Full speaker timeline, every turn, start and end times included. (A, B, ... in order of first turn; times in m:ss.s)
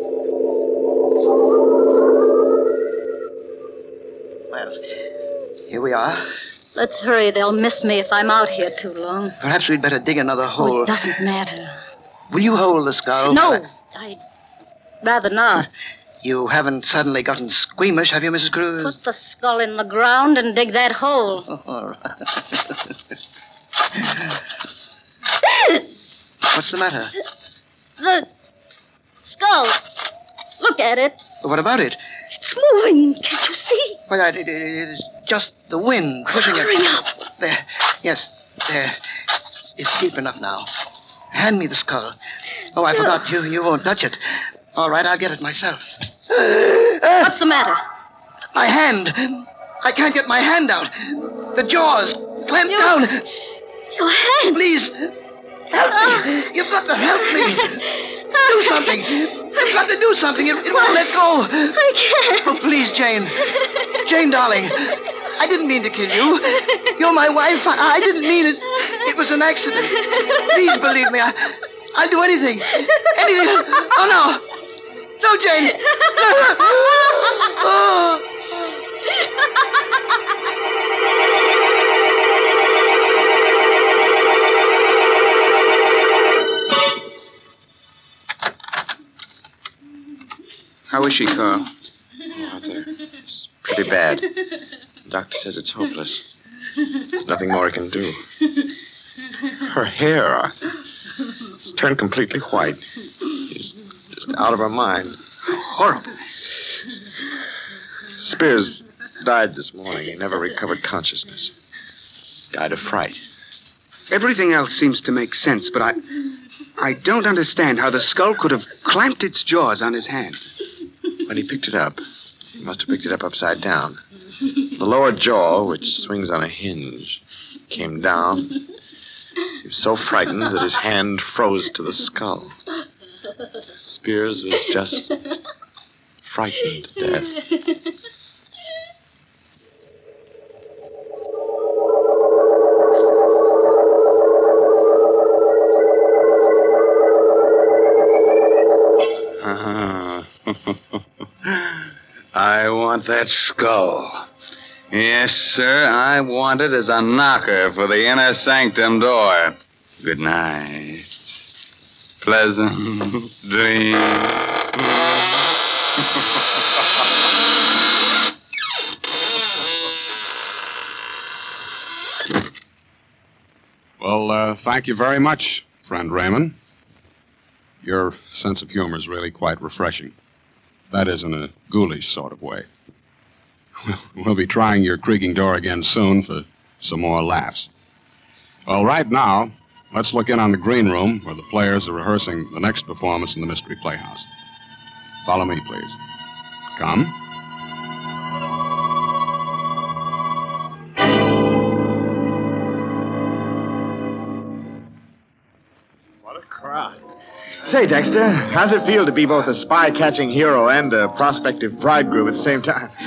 0:04.5-0:04.8 A
0:05.7-0:06.2 A
0:06.8-0:09.4 B
0:09.4-0:11.0 A
0:10.6-0:11.8 B
0:12.3-0:13.6 A
0:13.3-0:14.2 B
0:15.0-0:15.7 B
0:16.2-0:19.0 A
0:18.8-0:21.5 B
0:21.5-0:22.8 A
0:24.0-0:24.2 A
0:26.5-0:27.1 A
0:28.0-0:28.3 B
0:29.2-0:29.8 B
0:30.6-0:31.2 B
0:31.4-0:32.0 A
0:32.4-0:34.0 B
0:34.1-0:39.0 A
0:36.3-0:37.0 B
0:39.8-0:40.7 A
0:41.3-0:42.1 A
0:42.7-0:44.2 A
0:44.7-0:47.4 A
0:47.1-0:47.8 B
0:48.5-0:53.2 A
0:52.7-0:53.1 B
0:53.9-0:54.6 B
0:54.5-0:55.1 A
0:55.7-0:57.8 A
0:58.3-0:58.9 B
0:58.4-1:01.8 A
1:01.7-1:02.4 B
1:02.4-1:14.5 A
1:15.2-1:18.3 A
1:30.9-1:31.7 C
1:32.3-1:34.3 D
1:35.1-1:36.2 D
1:37.2-1:38.2 D
1:39.6-1:40.6 D
1:41.6-1:42.8 D
1:43.5-1:46.0 D
1:48.2-1:51.5 D
1:52.5-1:53.2 D
1:54.1-1:56.0 C
1:56.8-2:00.4 C
2:01.2-2:02.0 D
2:02.6-2:04.0 D
2:04.7-2:08.6 D
2:09.6-2:12.5 D
2:13.7-2:15.1 D
2:16.2-2:17.4 D
2:32.5-2:34.0 E
2:35.0-2:35.5 E
2:36.2-2:39.5 E
2:40.2-2:41.0 E
2:42.3-2:43.0 E
2:43.5-2:44.3 E
2:54.0-2:56.6 F
2:57.8-3:00.1 F
3:00.9-3:02.7 F
3:03.8-3:07.7 F
3:08.6-3:14.3 F
3:15.2-3:16.0 F
3:16.8-3:17.1 F
3:26.2-3:27.0 D
3:27.6-3:32.9 D